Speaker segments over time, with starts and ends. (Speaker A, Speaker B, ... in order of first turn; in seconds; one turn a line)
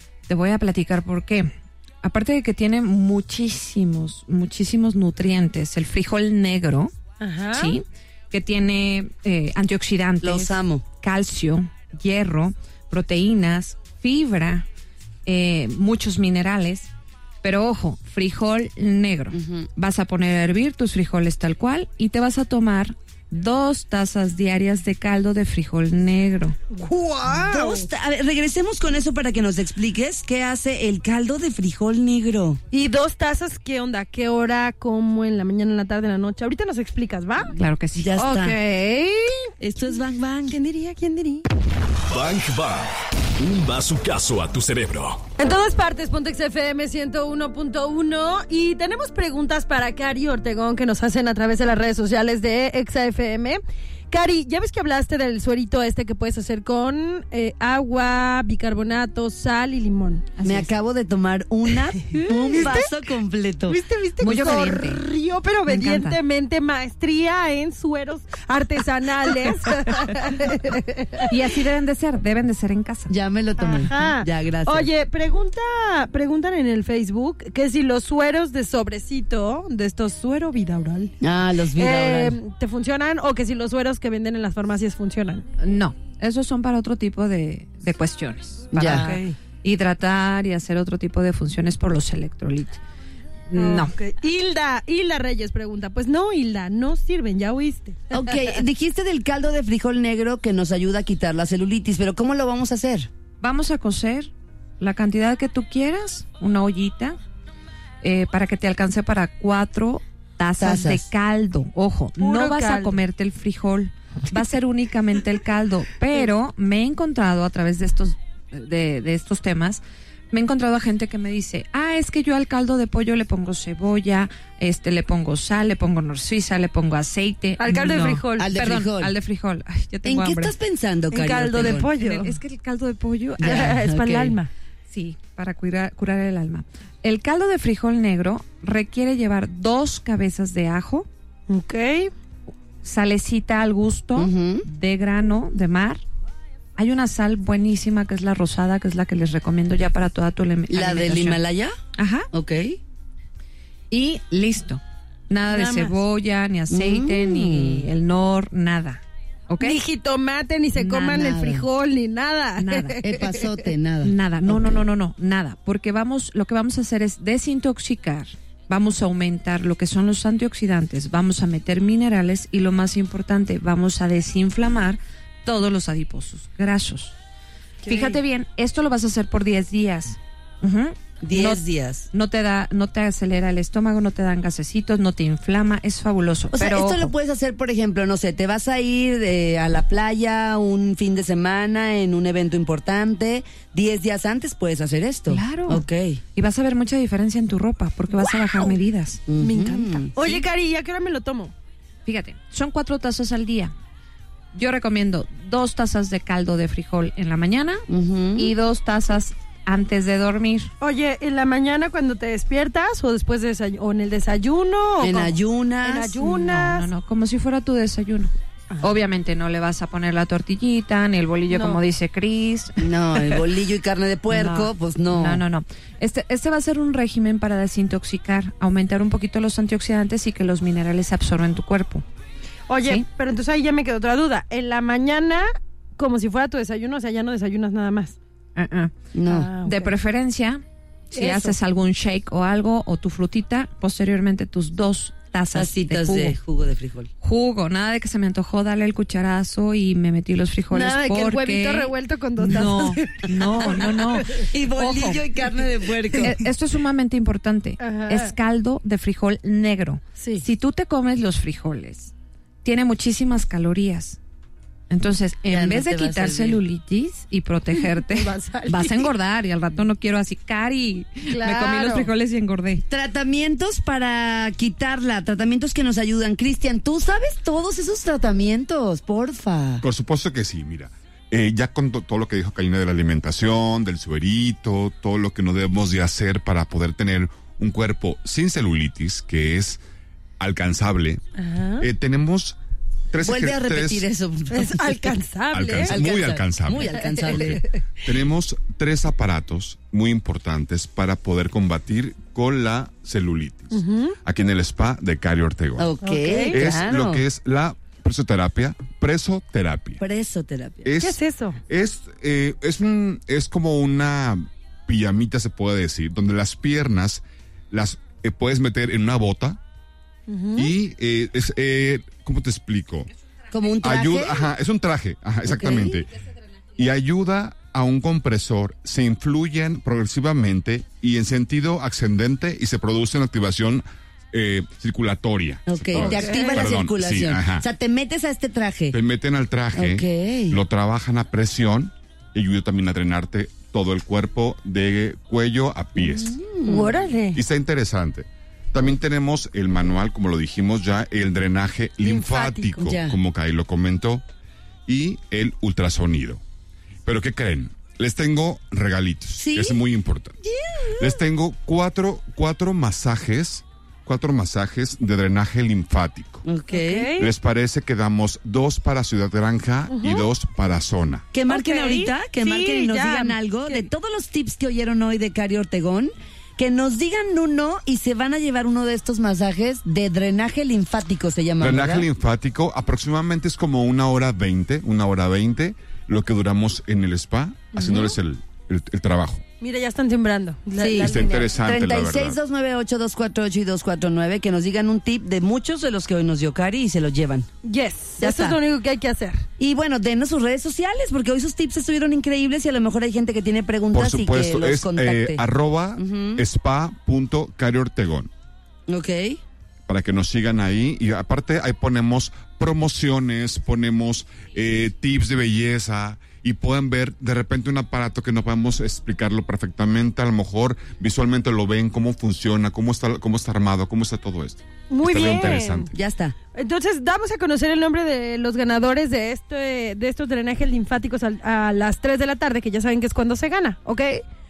Speaker A: 0.3-1.5
Speaker A: 2.0-6.9
Speaker B: 7.2-7.8
Speaker A: 7.5-14.7
Speaker C: 10.2-10.8
Speaker A: 15.3-16.9
Speaker A: 17.4-26.6
Speaker C: 19.3-19.7
Speaker B: 26.7-27.9
Speaker C: 27.3-32.6
Speaker B: 32.7-37.5
Speaker A: 37.5-39.5
Speaker C: 38.0-38.6
Speaker C: 39.6-40.7
Speaker B: 40.6-41.5
Speaker D: 42.0-45.3
Speaker B: 45.4-53.6
Speaker B: 54.1-60.2
Speaker A: 60.4-60.7
Speaker C: 60.4-63.8
Speaker B: 62.1-63.0
Speaker B: 63.7-71.3
Speaker A: 64.2-65.0
Speaker A: 65.7-66.2
Speaker A: 71.2-73.1
Speaker C: 73.1-74.9
Speaker B: 73.6-81.1
Speaker C: 81.2-82.4
Speaker B: 81.8-85.5
Speaker A: 85.6-92.8
Speaker C: 88.7-89.1
Speaker B: 88.8-89.3
Speaker A: 93.5-93.9
Speaker B: 93.6-98.2
Speaker C: 98.1-103.1
Speaker A: 103.4-107.2
Speaker A: 108.0-130.6
Speaker C: 110.6-111.0
Speaker B: 112.2-113.0
Speaker B: 127.6-128.5
Speaker C: 128.4-129.2
Speaker C: 130.1-131.9
Speaker B: 131.1-132.4
Speaker A: 131.6-133.7
Speaker C: 133.4-134.4
Speaker B: 133.4-134.5
Speaker A: 134.9-141.1
Speaker B: 141.5-142.1
Speaker A: 142.8-146.0
Speaker C: 144.2-144.7
Speaker A: 146.8-151.4
Speaker C: 150.7-151.8
Speaker A: 152.0-152.3
Speaker C: 152.3-152.8
Speaker A: 153.9-159.8
Speaker B: 155.5-156.0
Speaker C: 156.7-157.9
Speaker B: 159.6-163.7
Speaker A: 160.8-161.3
Speaker C: 161.1-161.6
Speaker A: 162.6-163.0
Speaker C: 163.0-164.8
Speaker A: 164.0-177.2
Speaker B: 177.8-178.2
Speaker A: 177.9-187.1
Speaker C: 181.2-182.1
Speaker C: 186.5-196.2
Speaker A: 195.3-195.8
Speaker A: 196.3-199.3
Speaker C: 199.3-200.1
Speaker B: 199.4-201.5
Speaker A: 200.1-200.4
Speaker A: 202.1-203.7
Speaker A: 204.5-207.8
Speaker C: 207.9-208.5
Speaker A: 208.4-210.7
Speaker B: 210.8-216.9
Speaker C: 215.0-216.2
Speaker A: 216.2-222.9
Speaker B: 221.5-221.8
Speaker C: 222.8-225.4
Speaker A: 224.3-232.1
Speaker B: 232.7-238.2
Speaker A: 238.6-238.9
Speaker C: 239.1-239.5
Speaker B: 239.3-239.9
Speaker A: 239.6-246.4
Speaker B: 241.2-241.5
Speaker C: 245.5-247.1
Speaker A: 247.2-255.3
Speaker B: 250.7-254.1
Speaker C: 254.3-256.4
Speaker A: 256.2-264.2
Speaker B: 257.8-258.3
Speaker B: 260.2-260.4
Speaker A: 264.9-272.9
Speaker C: 265.5-266.6
Speaker B: 267.8-269.1
Speaker B: 271.3-272.1
Speaker C: 272.9-279.8
Speaker E: 279.8-289.8
Speaker E: 290.4-291.2
Speaker B: 291.4-291.9
Speaker E: 291.8-292.6
Speaker E: 293.1-294.1
Speaker C: 293.2-294.9
Speaker B: 294.5-296.0
Speaker E: 295.5-305.9
Speaker C: 295.8-297.6
Speaker B: 303.7-304.2
Speaker C: 305.8-307.2
Speaker B: 306.0-306.6
Speaker E: 306.5-310.0
Speaker C: 310.0-310.9
Speaker E: 310.8-319.6
Speaker B: 311.0-311.6
Speaker B: 320.3-320.7
Speaker E: 320.6-323.1
Speaker C: 323.5-324.5
Speaker E: 323.8-326.1
Speaker C: 325.4-326.0
Speaker E: 326.8-337.6
Speaker C: 335.7-339.0
Speaker B: 335.9-336.7
Speaker E: 338.9-346.4
Speaker C: 339.8-340.6
Speaker C: 346.0-346.9
Speaker B: 346.7-347.4
Speaker E: 347.3-354.2
Speaker B: 352.0-352.9
Speaker C: 352.8-353.2
Speaker E: 354.9-356.4
Speaker E: 357.1-360.4
Speaker C: 359.4-359.8
Speaker C: 360.7-361.2
Speaker E: 361.0-366.4
Speaker C: 366.4-367.1
Speaker B: 366.7-367.3
Speaker E: 367.2-371.3
Speaker B: 369.9-370.3
Speaker C: 371.3-382.1
Speaker B: 371.5-373.9
Speaker E: 381.6-389.4
Speaker B: 387.7-388.2
Speaker B: 389.6-391.6
Speaker C: 390.8-397.5
Speaker E: 391.0-392.4
Speaker B: 397.6-399.4
Speaker C: 398.2-398.6
Speaker C: 399.6-405.4
Speaker E: 403.9-408.3
Speaker C: 406.0-406.4
Speaker C: 408.9-409.4
Speaker E: 409.9-425.9
Speaker B: 424.9-425.9
Speaker C: 425.9-426.4
Speaker B: 426.6-434.2